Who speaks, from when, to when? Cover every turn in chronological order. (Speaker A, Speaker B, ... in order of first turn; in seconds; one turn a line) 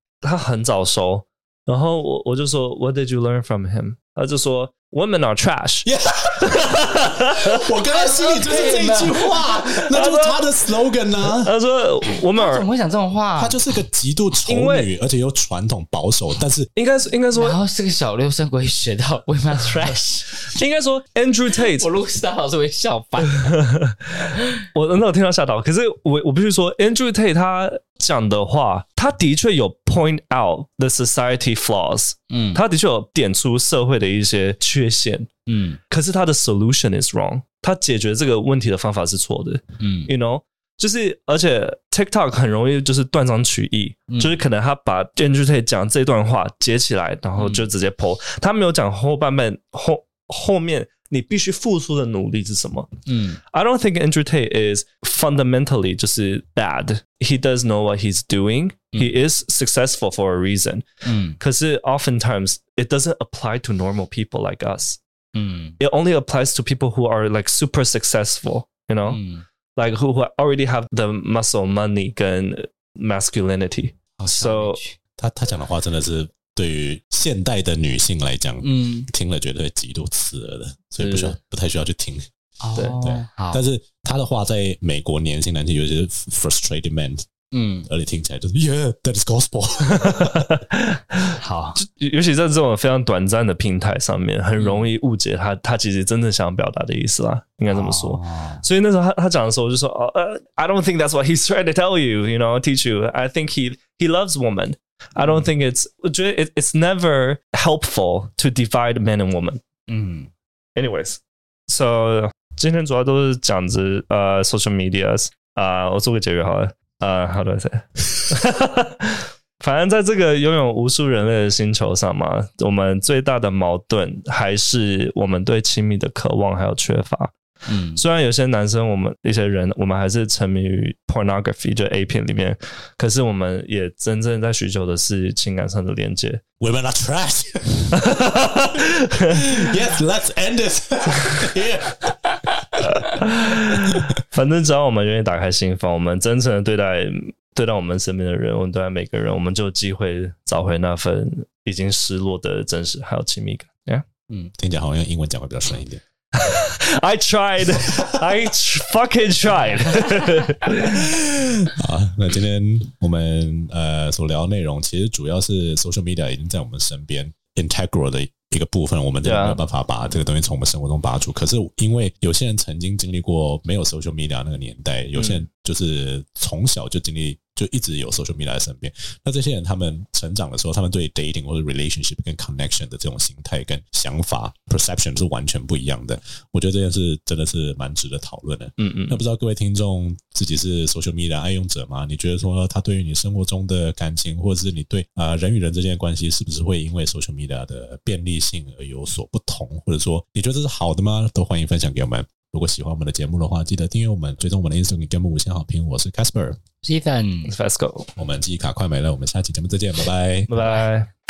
Speaker A: 0.2-7.6
Speaker B: 5.8-11.5
Speaker C: 7.9-9.4
Speaker A: 9.9-10.4
Speaker A: 11.4-12.7
Speaker C: 12.3-13.6
Speaker B: 13.4-16.7
Speaker A: 14.4-14.9
Speaker A: 16.7-17.6
Speaker C: 17.3-20.5
Speaker A: 20.4-21.9
Speaker C: 21.5-23.6
Speaker A: 23.2-35.3
Speaker C: 32.3-32.6
Speaker C: 35.5-35.8
Speaker A: 35.9-53.0
Speaker C: 39.8-40.1
Speaker C: 44.1-44.4
Speaker C: 47.4-47.7
Speaker C: 53.1-53.4
Speaker A: 53.5-60.9
Speaker C: 61.0-61.4
Speaker A: 61.4-65.0
Speaker C: 65.3-65.8
Speaker A: 65.8-69.2
Speaker C: 69.1-69.4
Speaker A: 69.7-74.8
Speaker C: 74.2-74.9
Speaker B: 75.2-82.3
Speaker C: 78.6-79.1
Speaker C: 81.0-81.3
Speaker C: 82.6-83.6
Speaker B: 83.0-87.3
Speaker C: 87.5-87.9
Speaker B: 87.9-90.4
Speaker A: 89.9-109.6
Speaker C: 91.4-91.8
Speaker C: 94.6-94.9
Speaker C: 97.7-98.6
Speaker C: 105.2-105.5
Speaker C: 109.9-110.3
Speaker A: 110.8-127.3
Speaker C: 127.7-128.0
Speaker A: 128.0-136.4
Speaker B: 136.6-138.0
Speaker A: 137.9-139.5
Speaker B: 139.3-142.1
Speaker A: 142.8-154.1
Speaker B: 143.7-144.1
Speaker B: 154.6-156.0
Speaker A: 156.3-161.0
Speaker B: 161.2-206.6
Speaker A: 169.2-169.6
Speaker A: 175.1-175.5
Speaker A: 188.8-189.2
Speaker C: 206.8-207.5
Speaker A: 207.5-208.1
Speaker B: 208.2-210.5
Speaker A: 210.5-211.1
Speaker C: 210.5-210.9